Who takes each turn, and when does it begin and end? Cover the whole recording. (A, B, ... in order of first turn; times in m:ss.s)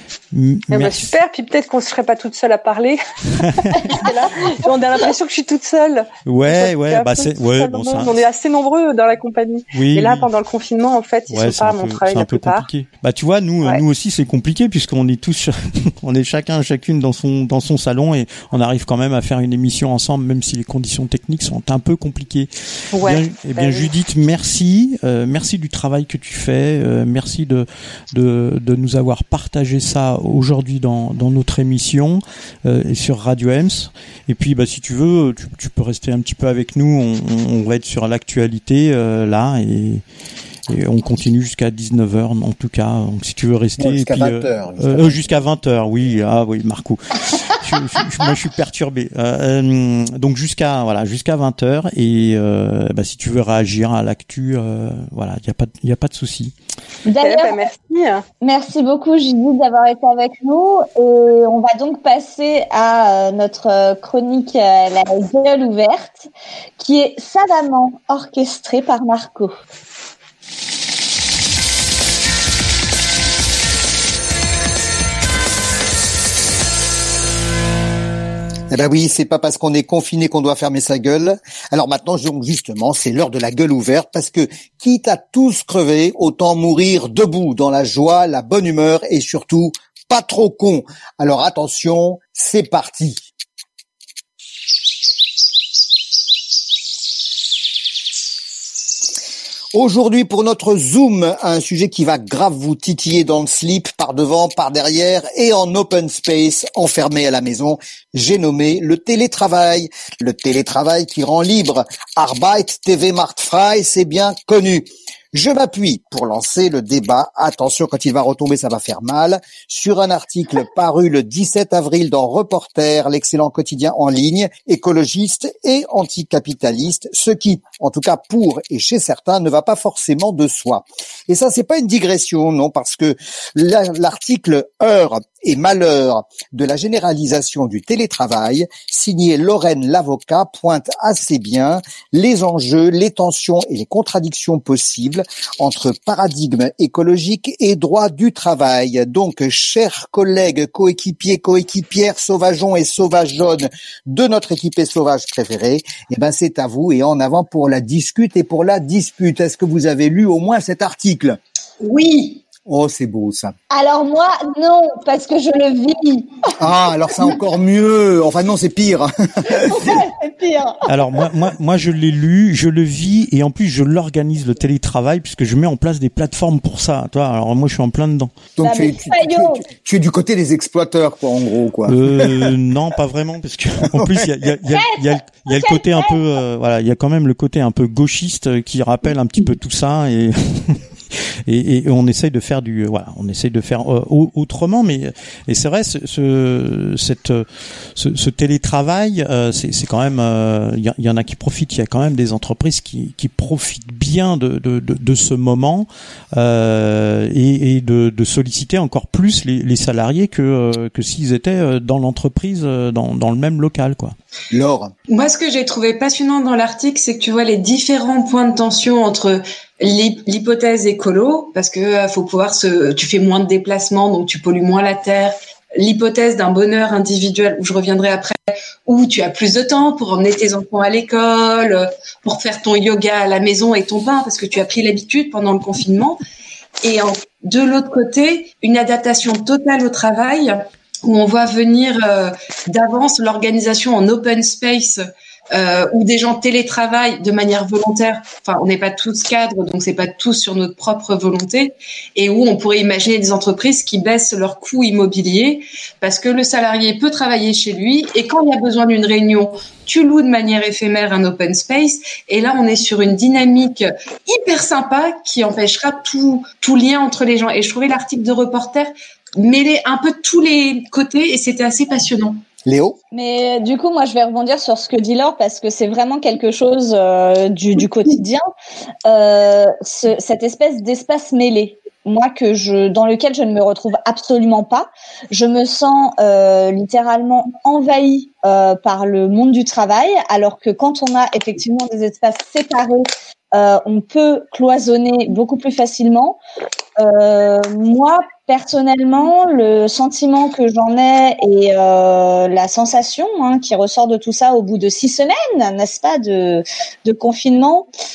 0:00.3-0:01.1 A
0:00.7-0:03.0 B
0:03.4-0:03.9 A
0:03.6-0:12.7 B
0:06.3-0:08.2 A
0:09.7-0:10.3 A
0:11.3-0:40.0 A
0:22.9-0:23.9 B
0:40.7-0:56.5 A
0:43.8-0:45.2 C
0:57.1-0:57.7 D
0:57.2-0:58.2 B
0:58.4-1:09.6 D
1:18.7-1:33.3 C
1:39.7-2:41.4 C
2:41.8-2:42.4 E
2:42.6-2:43.5 C
2:43.7-2:46.3 D
2:46.6-2:50.0 C
2:49.6-2:50.9 D
2:50.9-2:58.3 A
2:58.6-3:02.5 C
2:58.6-2:59.7 D
3:01.9-3:34.2 A
3:03.9-3:04.3 C
3:04.7-3:06.2 D
3:34.5-3:34.9 C
3:35.1-3:56.2 E
3:56.8-4:32.4 E
4:32.6-4:33.0 C
4:33.1-4:38.4 D
4:39.0-4:56.4 D
4:57.0-5:07.9 D